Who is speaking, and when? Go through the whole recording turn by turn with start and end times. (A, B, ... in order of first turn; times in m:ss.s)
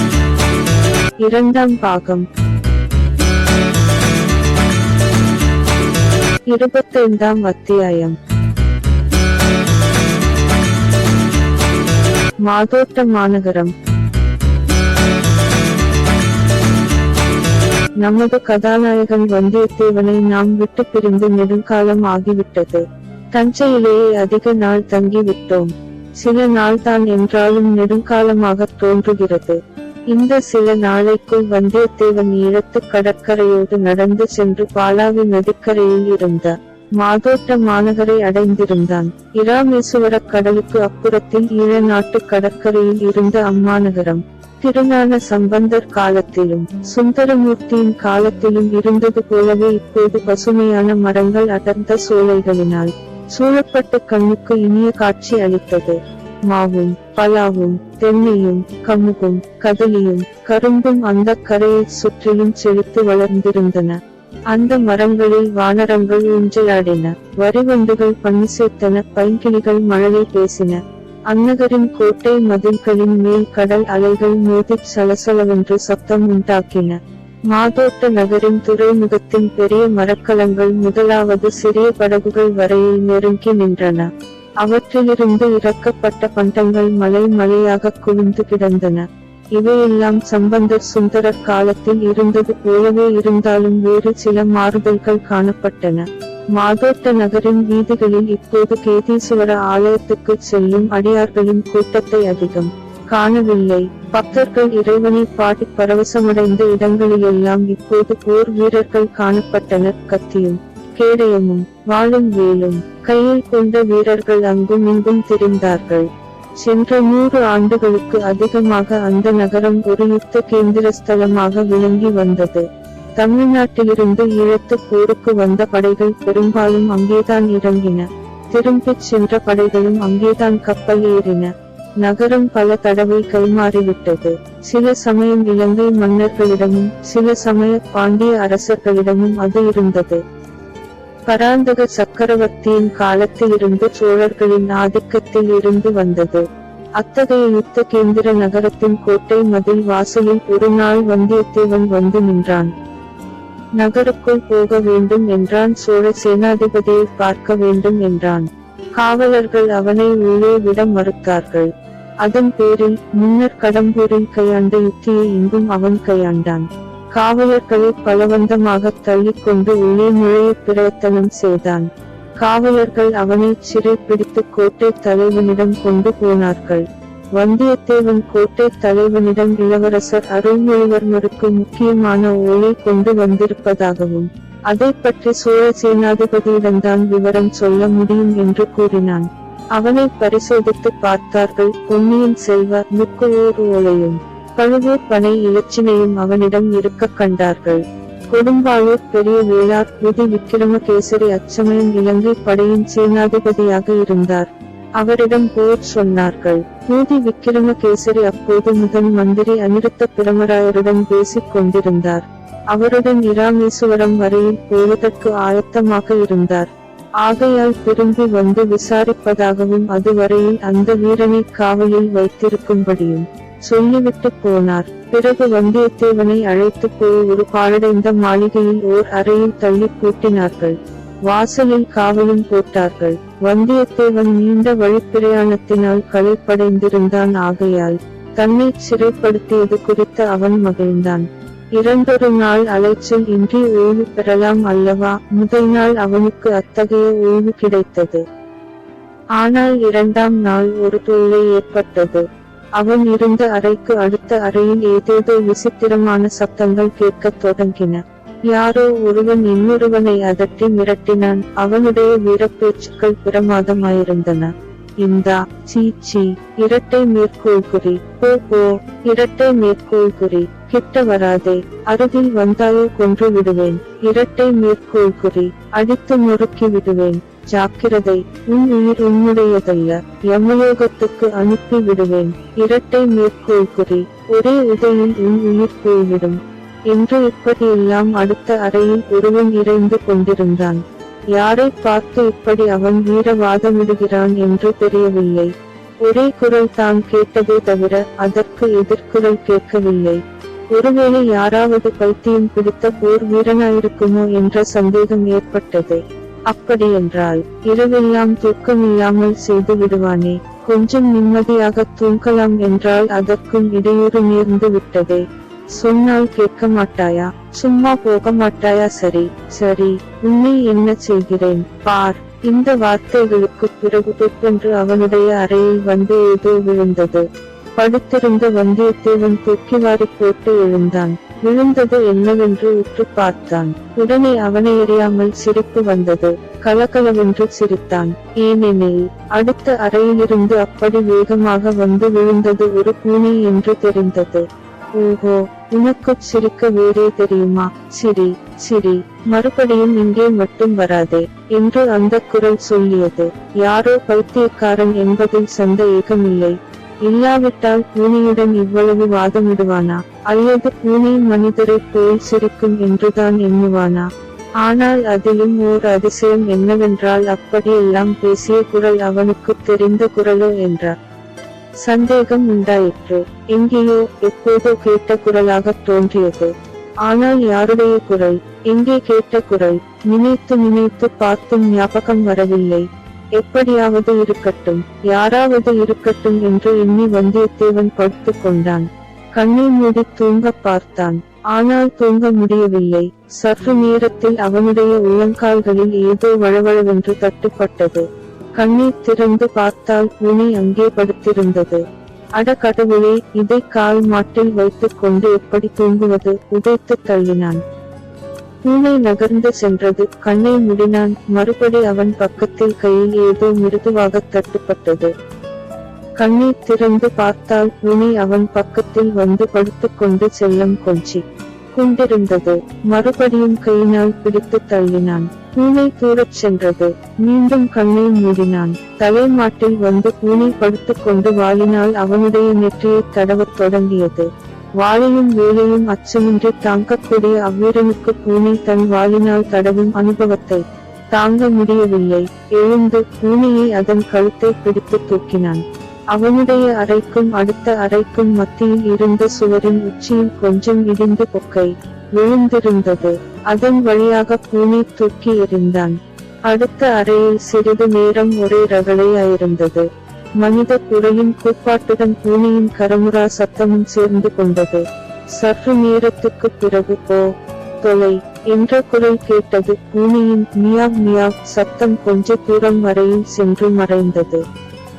0:01.2-0:02.3 A
0:06.5-0:08.2 A
0:12.4-0:13.7 A
0:18.0-0:29.6 A
0:30.1-1:04.0 A
1:04.5-2:20.2 A
2:21.3-2:26.5 A
2:27.0-2:32.7 A
2:33.8-4:08.2 A
4:09.4-4:50.8 A
4:51.3-6:04.1 A
6:04.6-6:11.0 A
6:11.8-6:41.8 A
6:42.4-6:47.6 A
6:48.6-6:55.1 A
6:56.2-7:01.2 A
7:01.7-7:14.3 A
7:14.8-7:54.4 A